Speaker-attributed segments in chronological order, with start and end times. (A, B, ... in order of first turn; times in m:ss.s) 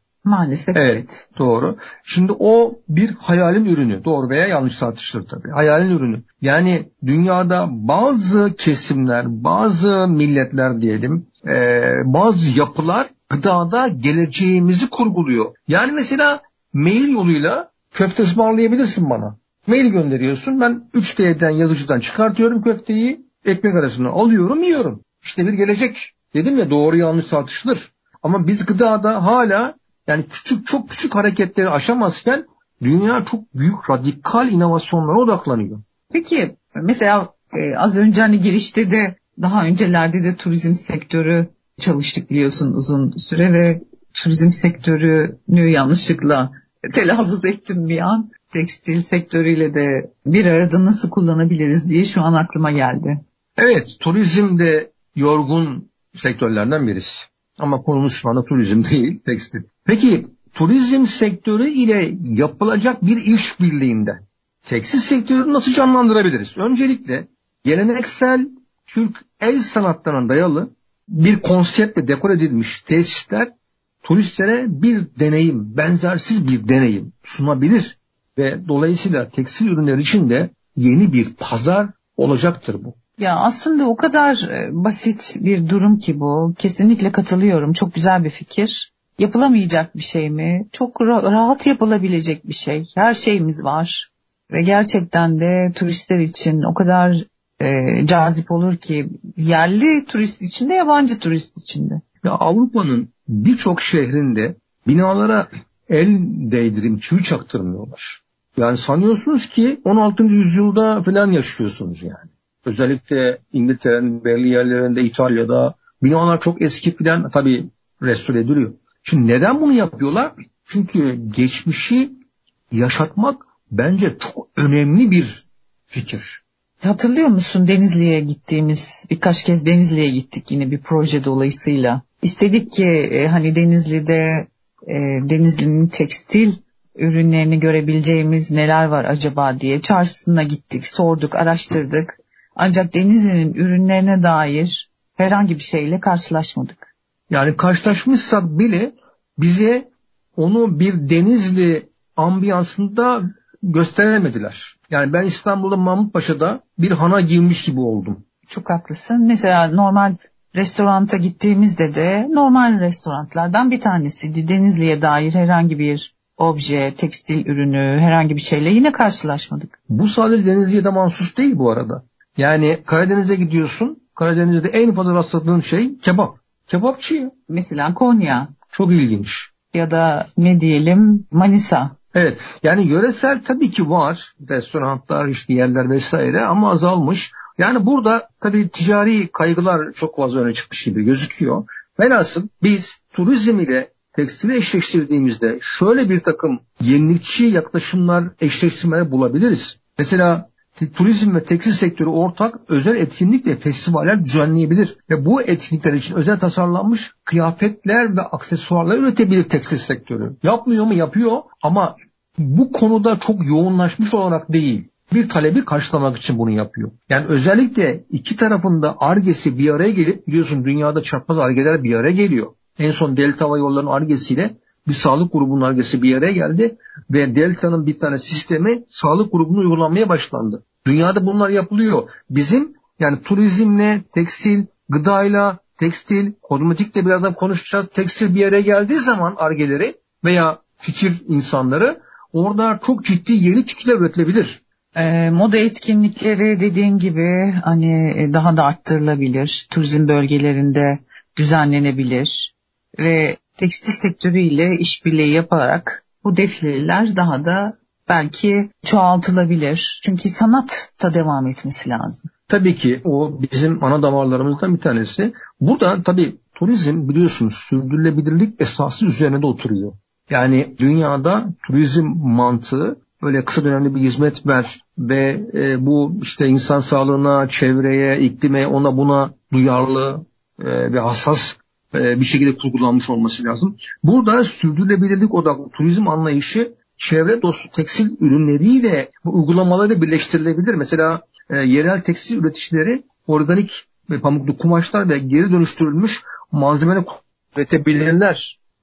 0:00.2-0:01.2 A
0:00.7-0:35.8 B
0:36.1-0:53.2 A
0:53.6-1:13.5 B
1:14.0-1:23.0 B
1:23.2-1:42.0 A
1:42.2-2:02.1 B
2:02.7-2:06.4 B
2:06.8-2:26.9 A
2:27.3-2:38.2 B
2:38.5-2:49.7 A
2:49.9-2:57.3 B
2:57.5-2:58.5 A
2:58.7-2:59.5 B
2:59.7-3:01.9 A
3:02.1-4:04.6 B
4:04.9-4:22.3 A
4:22.5-4:58.6 B